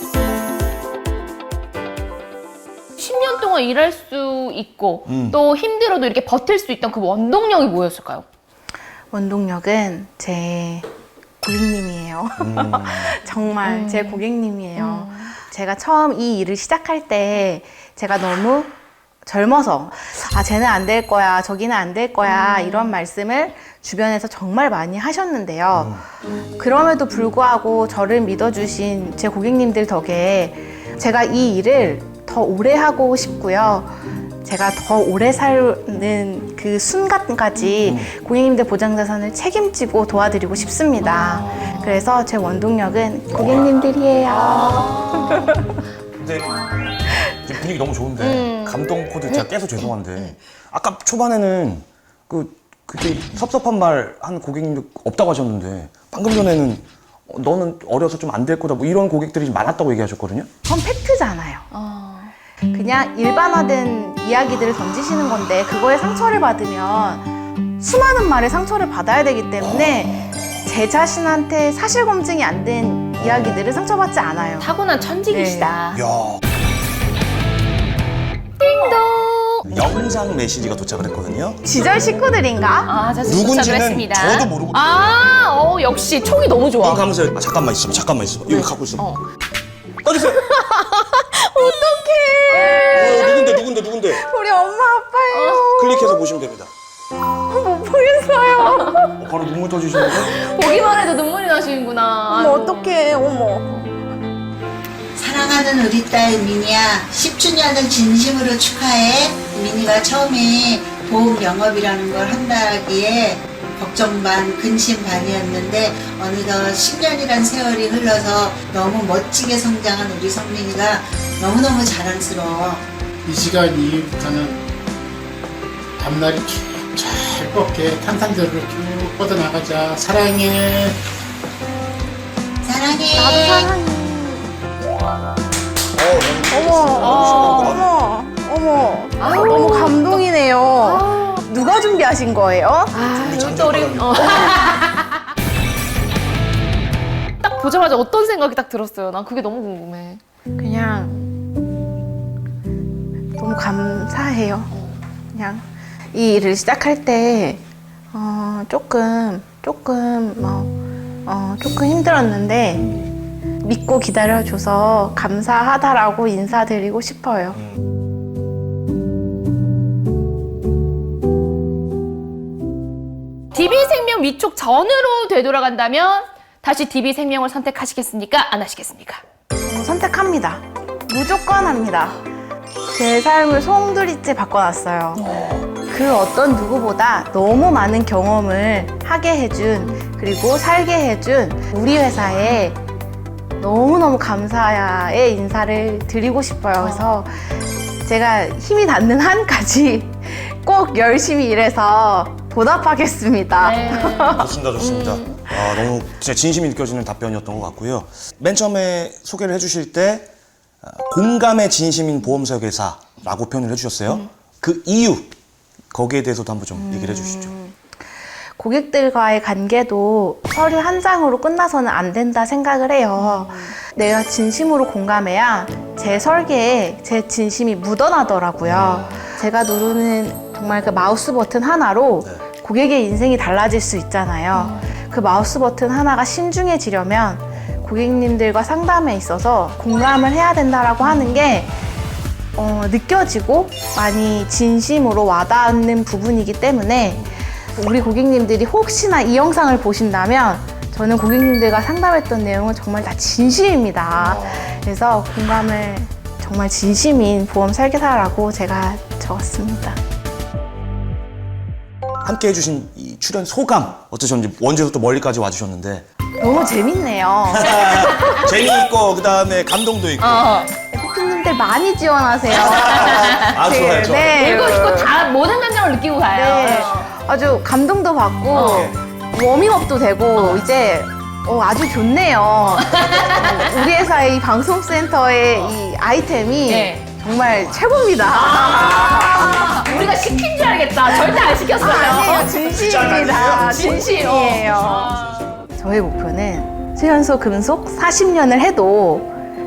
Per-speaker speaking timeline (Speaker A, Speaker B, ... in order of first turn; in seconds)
Speaker A: 3.0-8.2, 13.6-14.2, 14.8-15.3, 22.2-22.9, 41.4-42.0, 44.4-45.5, 48.2-49.5, 61.7-62.3, 74.6-76.0, 78.6-79.7, 82.8-87.0, 88.5-89.2, 92.5-93.3, 95.3-95.7, 98.5-98.9, 99.9-103.0, 137.0-137.8, 139.2-140.2, 140.8-141.4, 142.9-145.2, 147.4-150.2, 173.5-179.2, 185.2-185.7, 196.8-197.2, 203.6-205.4, 223.2-223.7, 234.5-234.9, 241.0-241.5, 267.9-268.5, 270.2-270.7, 272.8-273.6, 274.3-277.2, 278.5-278.9, 282.8-283.8, 286.7-287.0, 288.2-292.5, 293.6-295.5
Speaker B: 5.1-5.4, 12.4-13.1, 25.7-26.0, 37.8-38.1, 43.3-43.7, 46.2-46.5, 47.2-60.5, 73.2-73.6, 75.9-76.4, 79.7-81.6, 83.2-84.8, 86.8-89.0, 90.0-90.5, 92.9-94.2, 95.8-96.7, 99.2-100.3, 135.9-137.9, 143.1-144.6, 204.3-210.3, 210.8-215.3, 215.9-217.5, 228.6-229.2, 247.1-247.3, 254.2-254.7, 262.2-266.0, 267.5-270.6, 272.5-274.4, 278.5-279.0, 292.3-294.2, 295.2-295.6
Speaker C: 9.1-10.8, 11.4-18.7, 19.2-26.0, 26.6-45.6, 60.6-61.7, 62.7-74.7, 75.3-75.8, 81.6-82.9, 90.4-96.2, 97.5-99.2, 102.3-103.7, 133.1-134.5, 136.5-142.9, 150.6-151.1, 153.4-154.7, 155.3-160.7, 161.2-163.1, 163.6-167.6, 179.6-182.2, 182.9-185.2, 185.8-192.8, 193.6-197.3, 198.0-204.4, 216.7-217.7, 218.6-241.7, 242.6-260.0, 266.4-268.2, 270.9-275.1, 276.3-289.8, 291.4-295.1, 295.7-299.3
Speaker D: 105.2-122.8, 132.6-133.7
Speaker E: 123.2-124.6, 126.0-131.0